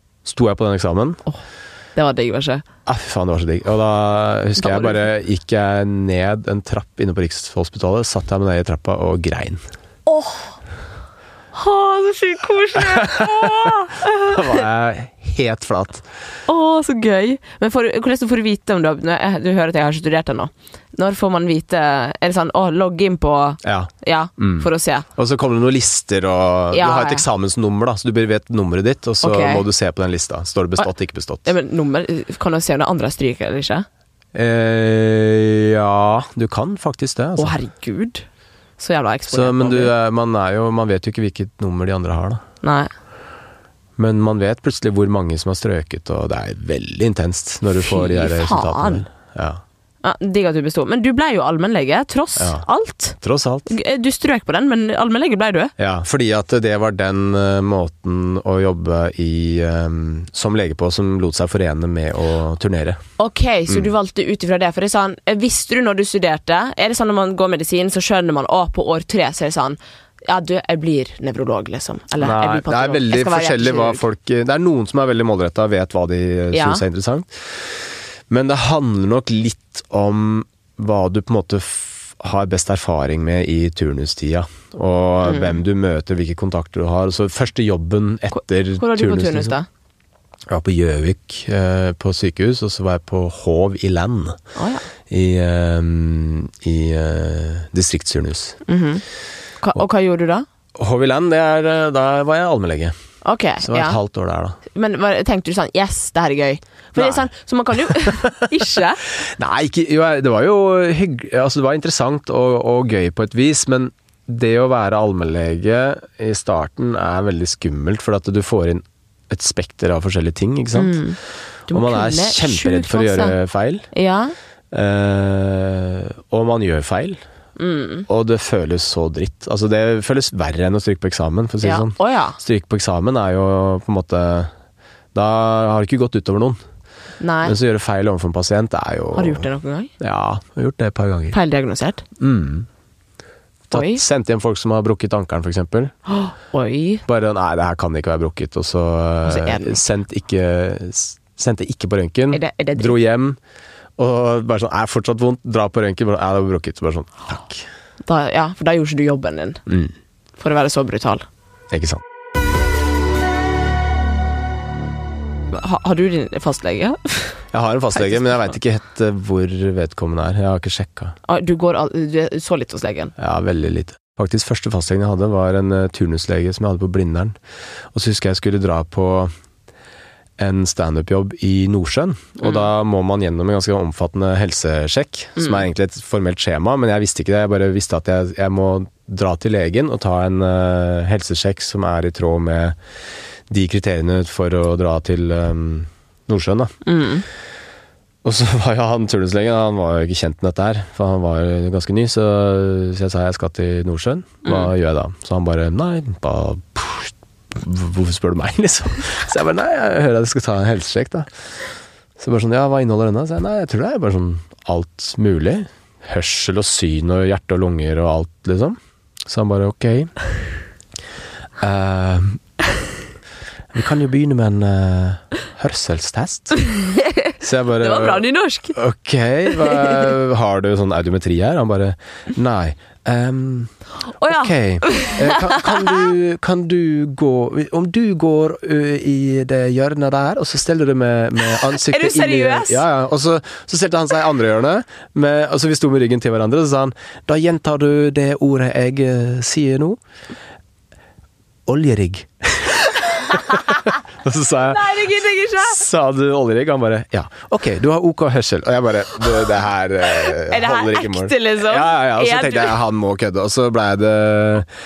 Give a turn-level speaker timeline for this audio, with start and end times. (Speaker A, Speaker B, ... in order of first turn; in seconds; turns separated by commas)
Speaker A: 0.2-1.2, Speaker B: 1.9-2.6, Speaker A: 2.9-9.6, Speaker B: 4.6-5.1, Speaker B: 10.1-10.6, Speaker B: 11.5-14.6, Speaker A: 12.9-16.1, Speaker B: 16.5-25.1, Speaker A: 23.6-31.5, Speaker B: 26.7-27.3, Speaker B: 29.2-29.6, Speaker B: 31.4-33.9, Speaker A: 34.3-37.6, Speaker B: 37.4-38.3, Speaker B: 38.8-39.9, Speaker A: 39.3-42.4, Speaker B: 42.6-42.9, Speaker A: 44.0-49.6, Speaker B: 47.8-49.0, Speaker B: 50.0-55.7, Speaker A: 52.4-52.6, Speaker A: 53.2-53.7, Speaker A: 55.8-63.0, Speaker B: 63.2-74.0, Speaker A: 72.2-89.6, Speaker B: 76.5-76.8, Speaker B: 85.2-85.6, Speaker B: 88.3-89.7, Speaker A: 90.5-94.4, Speaker B: 94.6-94.8, Speaker A: 95.1-98.6, Speaker B: 98.7-99.0, Speaker B: 99.6-100.5, Speaker A: 100.8-102.9, Speaker B: 103.2-104.0, Speaker A: 103.6-104.6, Speaker B: 104.7-109.0, Speaker A: 107.0-107.2, Speaker A: 107.9-108.5, Speaker A: 109.2-121.0, Speaker B: 120.8-123.3, Speaker A: 121.7-123.9, Speaker B: 123.9-124.3, Speaker A: 124.7-127.2, Speaker B: 127.6-128.1, Speaker A: 128.1-134.5, Speaker B: 131.6-132.4, Speaker A: 135.1-136.6, Speaker B: 137.2-137.6, Speaker A: 137.4-139.5, Speaker B: 139.2-139.9, Speaker A: 140.0-141.4, Speaker B: 141.3-142.0, Speaker A: 142.2-142.7, Speaker B: 143.7-144.0, Speaker A: 143.7-145.9, Speaker B: 146.1-147.0, Speaker A: 147.1-153.4, Speaker B: 149.2-149.8, Speaker B: 152.3-152.9, Speaker A: 154.0-157.7, Speaker B: 158.1-159.6, Speaker A: 159.7-159.9, Speaker B: 160.4-161.2, Speaker A: 161.7-162.0, Speaker B: 165.5-167.4, Speaker A: 167.5-171.2, Speaker B: 167.9-168.5, Speaker B: 171.3-173.1, Speaker A: 173.2-177.3, Speaker A: 177.9-179.3, Speaker A: 180.4-192.8, Speaker B: 185.4-185.6, Speaker A: 193.5-196.7, Speaker B: 196.8-197.3, Speaker A: 198.2-211.3, Speaker B: 204.4-204.7, Speaker A: 212.2-220.1, Speaker A: 221.6-222.4, Speaker A: 223.7-226.6, Speaker B: 226.7-228.8, Speaker A: 227.4-233.7, Speaker B: 229.6-229.9, Speaker B: 234.2-236.1, Speaker A: 234.2-250.0, Speaker B: 241.4-242.8, Speaker A: 251.7-255.1, Speaker B: 254.7-255.8, Speaker A: 255.6-264.7, Speaker B: 260.1-262.8